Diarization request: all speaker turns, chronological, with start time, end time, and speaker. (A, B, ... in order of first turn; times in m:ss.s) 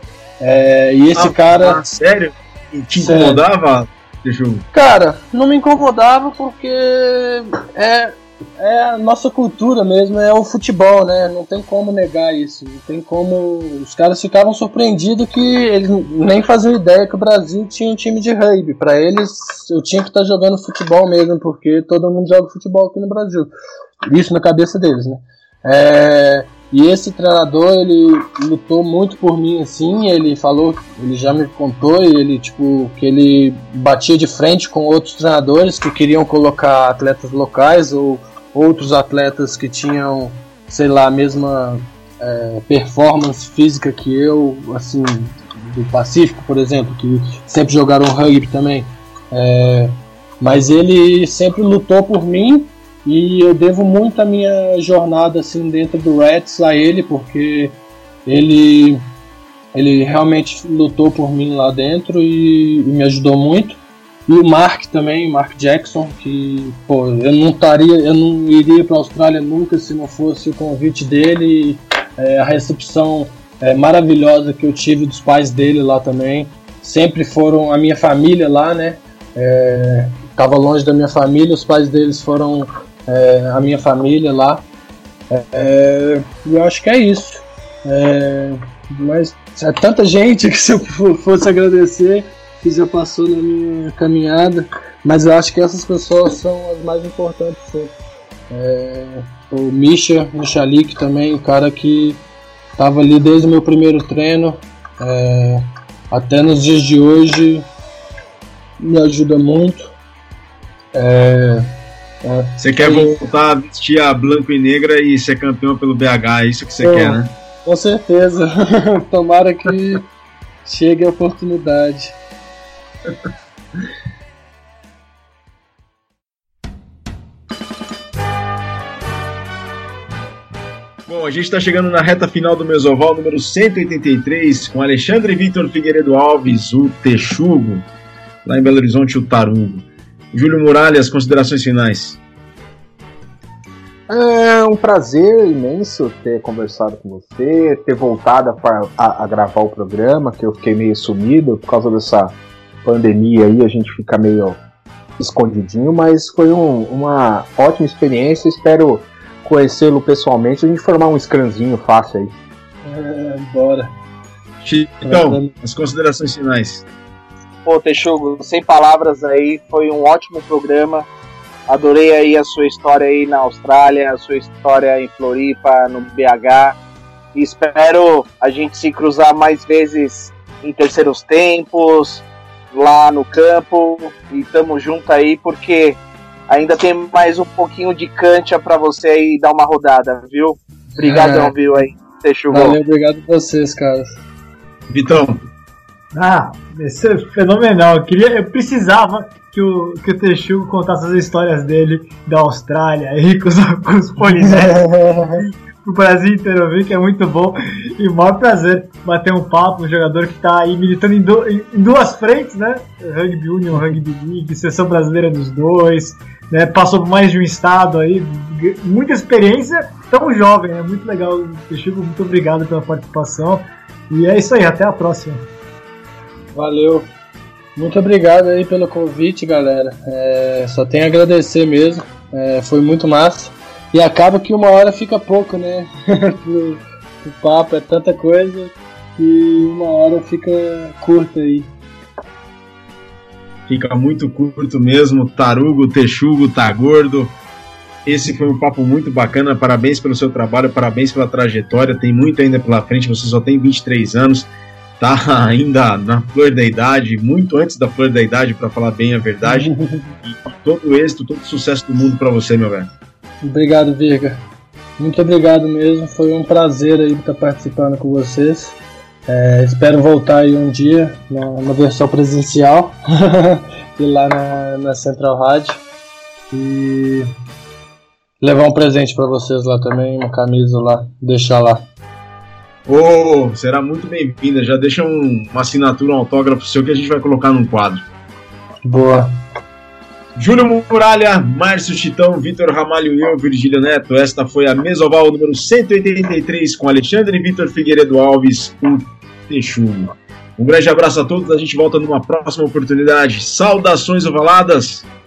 0:00.4-0:01.8 A
0:01.2-0:04.7 B
0:03.0-0:03.4 A
0:04.7-0:23.5 A
0:24.1-0:59.0 A
0:59.8-1:24.6 A
1:25.3-1:37.9 A
1:38.5-1:42.2 A
1:42.8-1:47.7 A
1:48.8-1:49.9 A
1:51.0-1:51.7 A
1:52.2-1:53.2 A
1:52.6-1:57.3 B
1:56.8-2:00.1 A
2:00.6-2:02.2 A
2:11.1-2:17.9 B
2:18.4-2:22.2 B
2:24.1-2:34.6 C
2:35.2-2:42.3 C
2:42.8-2:43.9 A
2:44.6-2:46.9 B
2:45.0-2:45.5 A
2:47.7-2:51.1 D
2:51.7-2:56.8 D
2:57.4-3:12.8 D
3:11.0-3:11.5 A
3:12.5-3:14.2 A
3:14.9-3:15.4 B
3:16.1-3:45.4 E
3:24.4-3:25.4 A
3:46.5-3:47.1 A
3:47.8-4:01.7 A
4:03.7-4:07.4 B
4:08.0-4:19.7 B
4:19.4-4:20.2 A
4:20.3-4:22.9 B
4:23.4-4:24.4 A
4:25.0-4:35.8 A
4:36.5-4:37.3 A
4:38.4-4:41.8 A
4:42.9-4:48.0 B
4:48.8-4:49.3 A
4:50.4-5:05.1 B